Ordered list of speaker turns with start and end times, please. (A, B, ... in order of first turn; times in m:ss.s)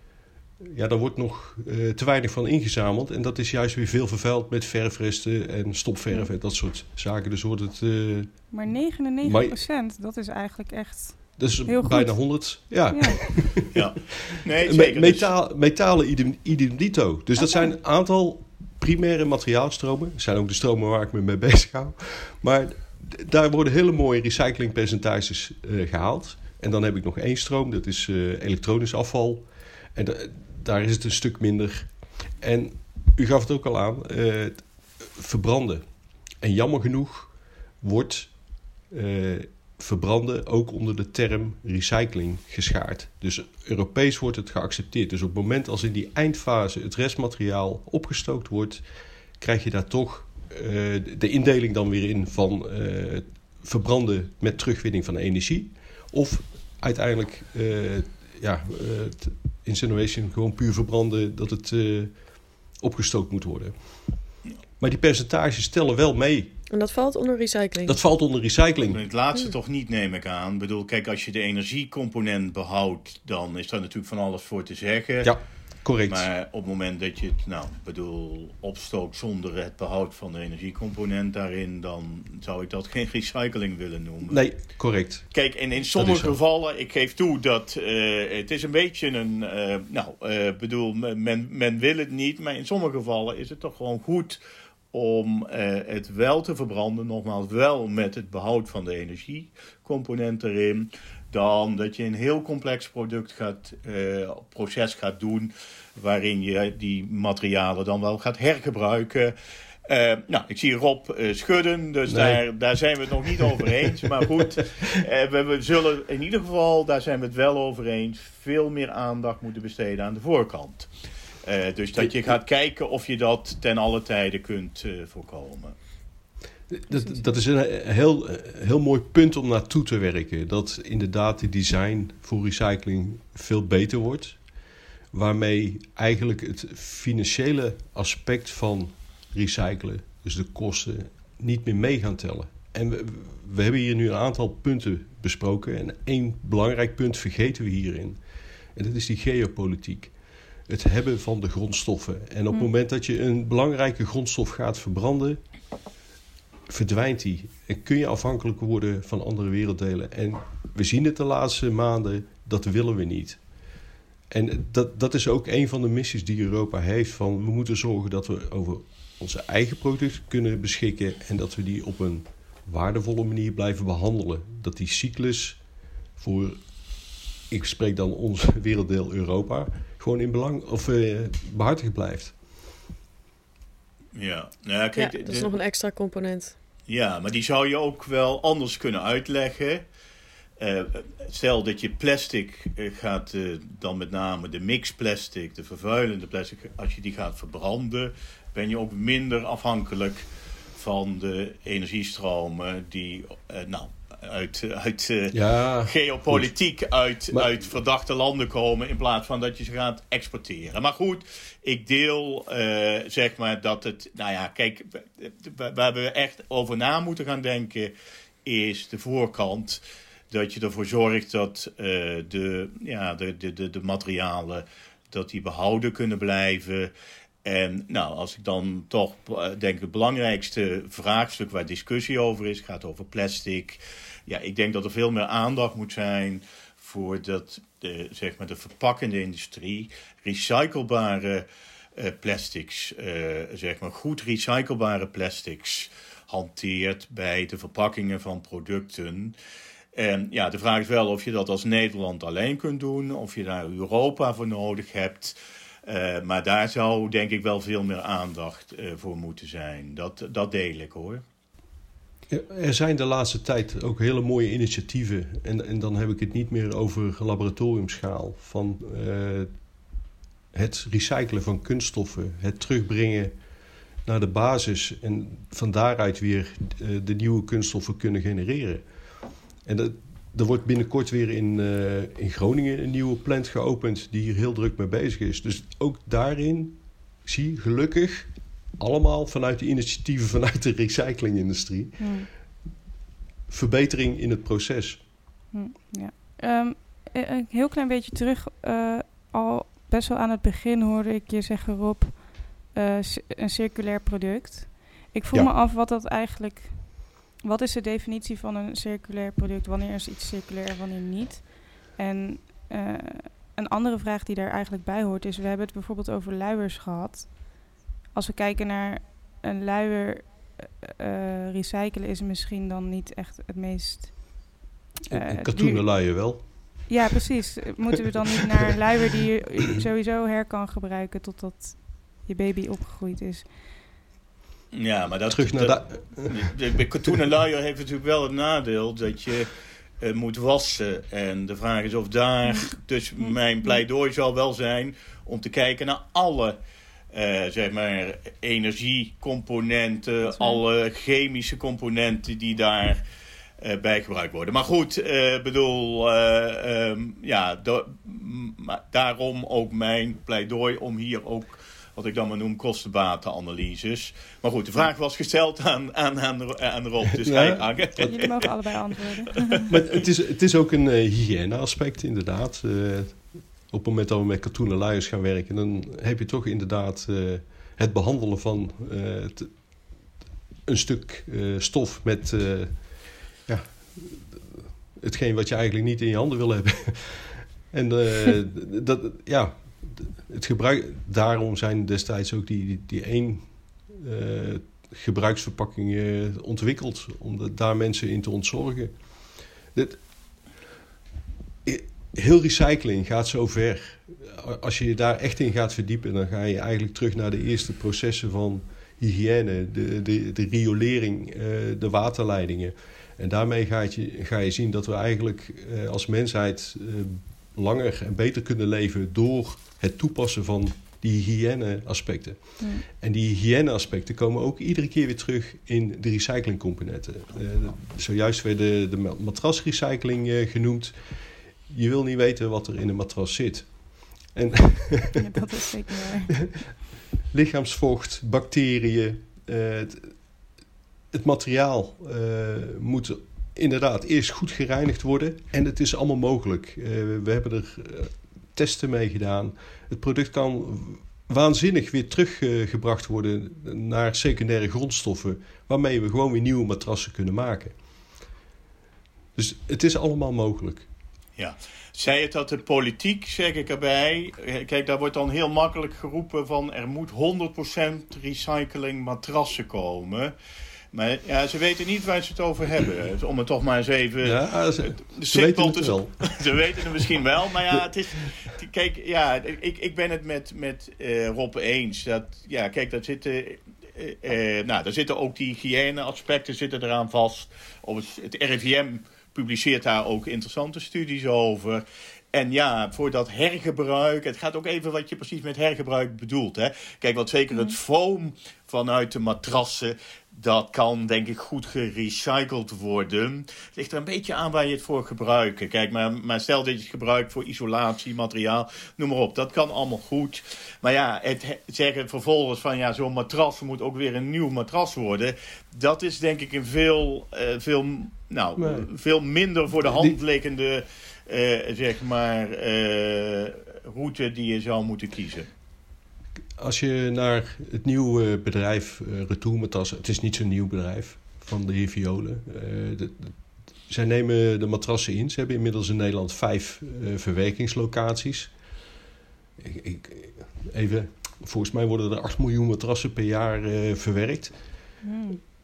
0:00.6-0:08.7 A
0:08.5-0:13.4 B
0:09.2-0:09.6 A
0:11.4-0:13.8 A
0:13.7-0:15.3 C
0:14.6-0:48.9 A
0:49.4-1:06.5 A
1:06.7-1:08.0 D
1:07.8-1:09.0 A
1:08.9-1:15.4 C
1:15.2-1:16.3 A
1:16.1-1:24.6 C
1:24.3-1:25.3 A
1:25.3-1:34.4 C
1:25.9-1:26.4 A
1:34.9-1:49.3 C
1:49.9-2:00.9 C
1:52.1-1:52.4 A
1:53.4-1:53.9 A
2:01.4-2:05.7 C
2:02.0-2:02.3 A
2:06.7-2:14.4 A
2:15.1-2:35.6 A
2:36.7-2:43.6 A
2:44.3-2:55.6 A
2:56.2-3:02.4 A
3:04.1-3:05.5 C
3:05.0-3:06.5 D
3:06.9-3:09.8 C
3:10.6-3:37.9 C
3:25.3-3:26.5 A
3:27.3-3:27.6 A
3:38.4-3:46.9 C
3:47.4-4:09.3 C
4:09.9-4:21.2 C
4:22.3-4:29.9 A
4:30.5-4:33.4 A
4:34.0-4:38.9 A
4:39.6-4:52.2 A
4:52.0-4:52.3 B
4:53.5-4:55.0 A
4:55.5-5:33.7 B
5:25.1-5:27.0 A
5:34.7-5:46.6 C
5:35.3-5:36.6 A
5:47.1-5:53.0 C
5:50.2-5:50.6 B
5:53.6-6:08.9 C
6:07.2-6:08.2 A
6:08.1-6:09.7 B
6:09.7-6:20.1 A
6:20.6-6:40.4 A
6:41.6-7:15.3 A
7:02.6-7:02.8 B
7:15.2-7:16.3 B
7:17.3-7:20.4 A
7:21.1-7:37.8 A
7:39.3-7:40.9 A
7:41.4-7:50.3 C
7:50.9-8:45.5 C
7:54.2-7:56.5 A
8:38.6-8:38.9 A
8:39.9-8:40.2 A
8:46.6-8:58.7 A
8:59.6-9:05.0 A
9:05.0-9:05.4 B